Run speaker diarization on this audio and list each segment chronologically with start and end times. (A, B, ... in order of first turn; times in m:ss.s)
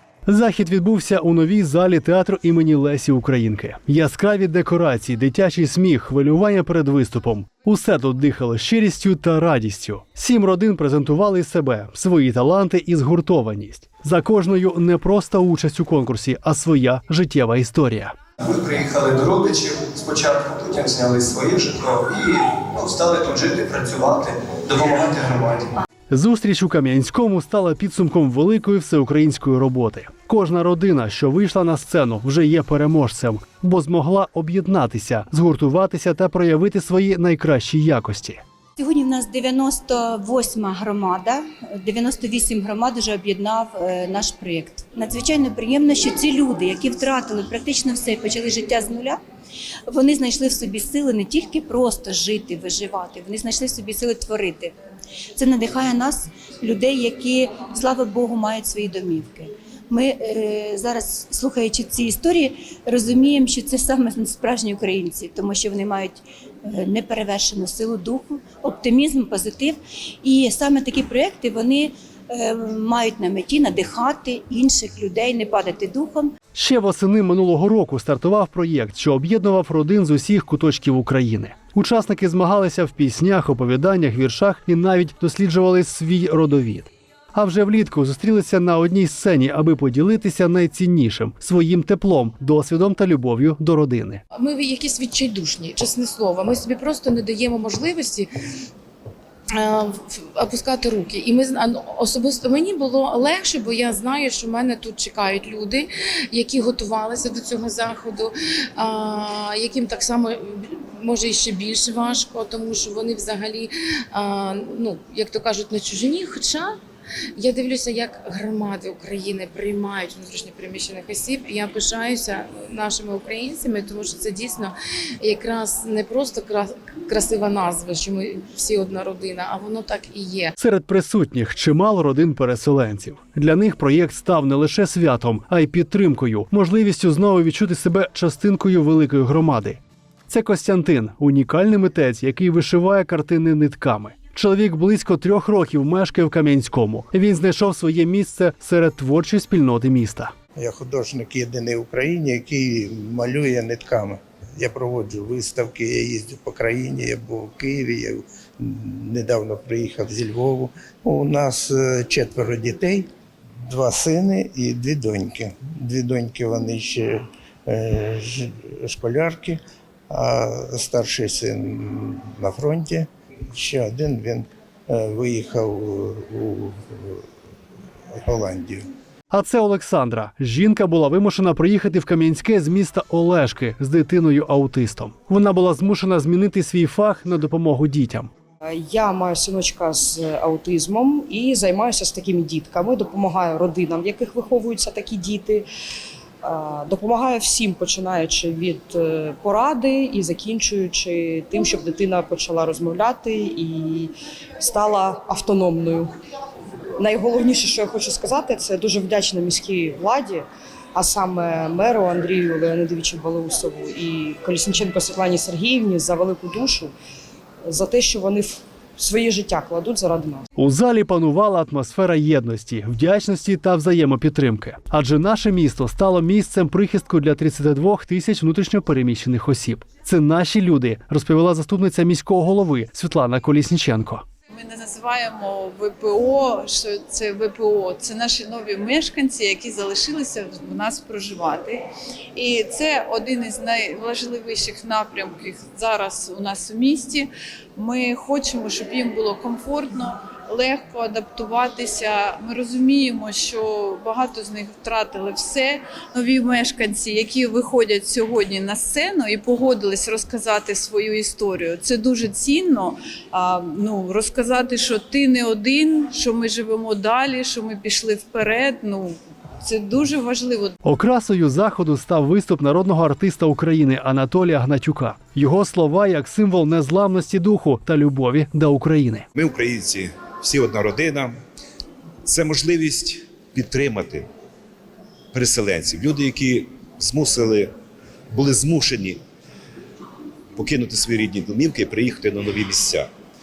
0:00.3-0:18.1 A
0:18.5-0:25.7 B
0:26.1-0:38.4 A
0:38.8-0:49.2 C
0:49.9-0:54.7 C
0:55.4-1:16.3 C
1:16.6-1:34.2 A
1:34.3-1:38.3 D
1:39.6-1:56.7 D
1:57.4-2:10.5 D
2:10.6-2:30.3 A
2:30.6-2:43.1 E
2:43.7-2:49.6 E
2:50.1-2:57.2 E
2:58.2-2:58.8 E
2:59.3-3:08.3 A
3:08.6-3:15.7 F
3:16.4-3:26.1 F
3:27.0-3:36.9 F
3:37.7-3:40.4 F
3:40.6-3:54.2 A
3:54.5-4:01.8 G
4:02.4-4:30.8 G
4:30.8-4:39.3 A
4:39.4-4:41.4 H
4:42.2-4:44.3 H
4:45.3-4:47.7 H
4:48.3-4:49.2 H
4:50.6-4:53.1 H